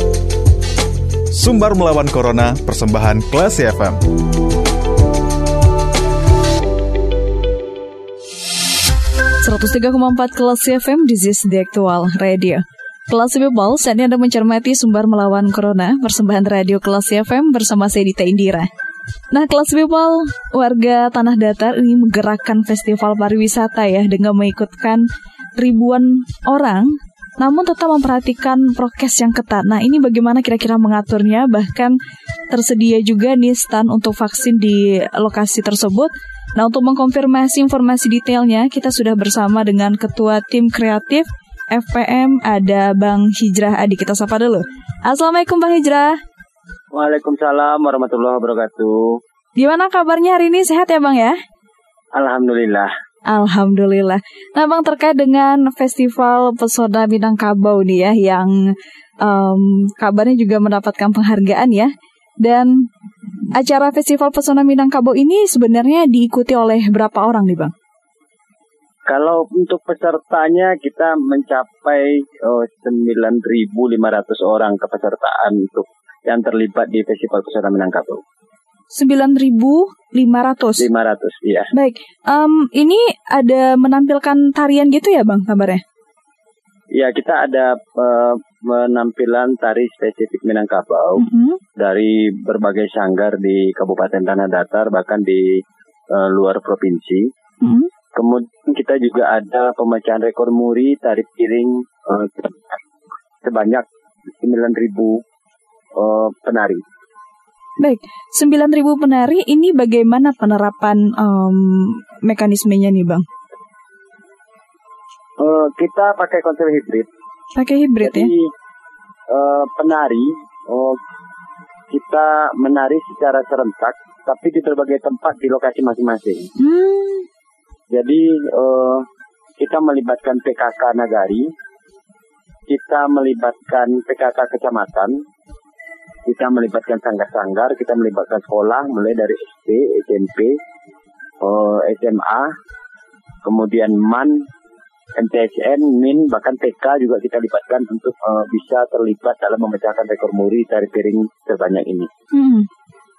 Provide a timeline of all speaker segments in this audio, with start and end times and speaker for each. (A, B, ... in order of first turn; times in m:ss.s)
0:01.4-0:04.0 A
0:09.4-0:18.7 B
0:19.3-0:25.0 B
0:25.6-0:32.0 B
0:32.5-0:46.2 B
0:46.9-0:49.2 C
0:49.6-0:51.4 B
0:52.1-0:52.9 C
0:53.3-1:01.9 B
1:02.4-1:02.9 B
1:03.6-1:07.7 B
1:09.1-1:18.2 C
1:18.9-1:20.9 B
1:20.8-1:21.7 C
1:21.7-1:25.8 B
1:26.9-1:31.2 C
1:31.2-1:31.6 B
1:31.8-1:35.6 C
1:36.1-1:37.3 C
1:37.6-1:37.9 B
1:38.1-1:42.8 C
1:43.4-1:43.8 C
1:44.4-1:45.2 C
1:46.0-1:46.8 C
1:47.8-1:53.2 B
1:55.4-1:57.1 C
1:57.6-1:58.3 B
1:58.0-1:58.5 C
1:59.3-2:01.0 C
2:01.9-2:06.5 C
2:06.6-2:07.3 B
2:07.9-2:09.1 C
2:09.6-2:11.5 C
2:12.7-2:15.2 C
2:16.3-2:20.6 C
2:21.4-2:22.5 C
2:23.4-2:24.4 C
2:25.2-2:32.1 C
2:32.3-2:32.7 B